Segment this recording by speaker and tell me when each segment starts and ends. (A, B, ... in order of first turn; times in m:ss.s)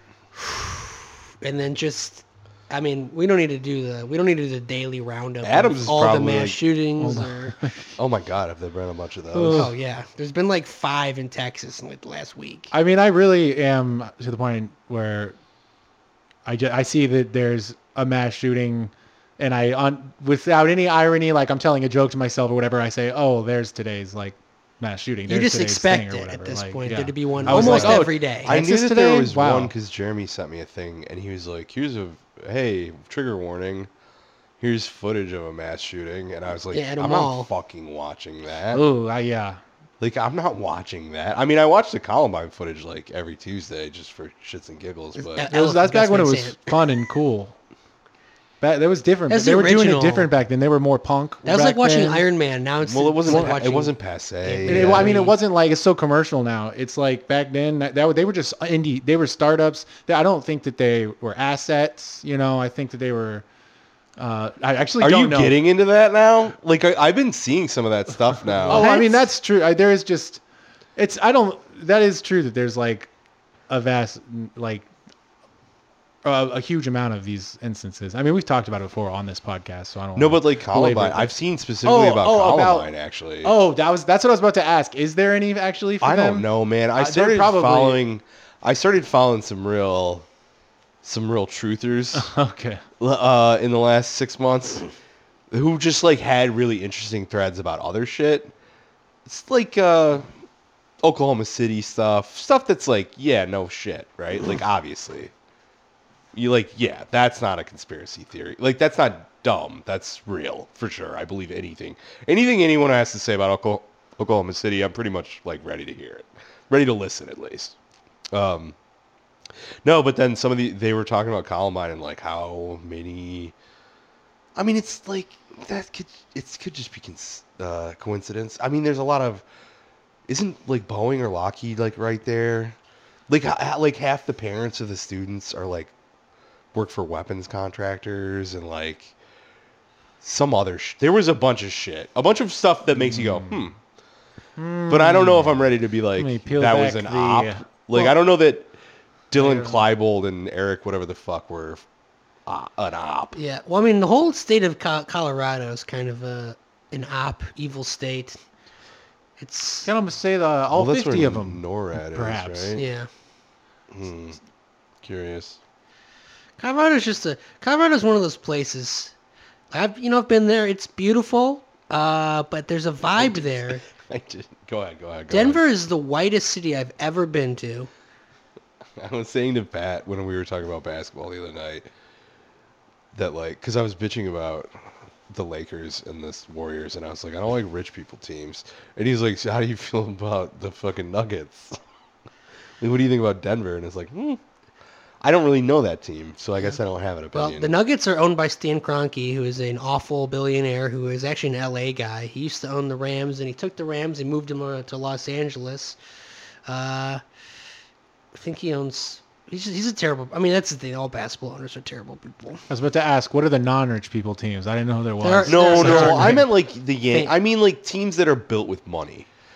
0:00.4-0:00.8 A
0:01.4-0:07.6 A
0:05.4-0:06.6 B
0:07.0-0:07.7 C
0:08.0-0:09.7 B
0:09.3-0:09.7 C
0:09.5-0:12.7 A
0:12.7-0:15.4 C
0:16.5-0:29.7 C
0:25.3-0:28.5 A
0:27.4-0:33.9 B
0:34.6-0:38.8 B
0:36.7-0:37.5 A
0:38.7-0:39.6 C
0:40.0-0:45.5 B
0:45.2-0:46.7 A
0:45.5-0:47.5 C
0:48.6-0:52.2 C
0:49.3-0:50.3 A
0:51.4-0:55.4 A
0:52.8-0:55.2 B
0:53.3-0:53.6 C
0:54.7-1:03.4 C
1:04.2-1:05.6 C
1:05.0-1:08.9 B
1:08.6-1:10.4 C
1:08.7-1:09.3 A
1:11.0-1:13.1 C
1:13.7-1:14.9 C
1:16.2-1:22.9 C
1:20.2-1:23.6 B
1:23.4-1:28.0 C
1:26.0-1:30.3 B
1:31.0-1:32.3 B
1:32.2-1:32.8 C
1:33.0-1:34.8 B
1:35.5-1:38.5 B
1:39.3-1:40.3 B
1:41.0-1:45.3 B
1:46.3-1:57.7 B
1:58.3-1:58.8 B
1:59.8-2:03.5 B
2:04.6-2:09.4 B
2:10.3-2:12.8 B
2:13.3-2:15.9 B
2:16.7-2:19.1 B
2:20.2-2:23.8 B
2:22.9-2:23.6 C
2:24.6-2:28.1 C
2:24.9-2:28.7 B
2:29.3-2:31.8 B
2:29.4-2:29.8 C
2:32.5-2:33.4 B
2:33.4-2:38.4 A
2:39.4-2:39.9 A
2:39.8-2:42.8 C
2:40.7-2:42.8 B
2:42.8-2:43.1 A
2:43.9-2:44.4 B
2:45.0-2:45.6 B
2:46.6-2:49.1 A
2:49.7-2:53.8 A
2:53.2-2:55.6 B
2:55.3-2:57.9 A
2:59.0-3:01.9 B
3:03.1-3:04.7 B
3:05.3-3:11.8 B
3:12.8-3:14.4 B
3:15.2-3:17.7 B
3:17.3-3:26.0 A
3:26.7-3:27.2 A
3:28.3-3:32.6 A
3:32.7-3:36.5 C
3:35.2-3:36.5 A
3:35.5-3:39.3 B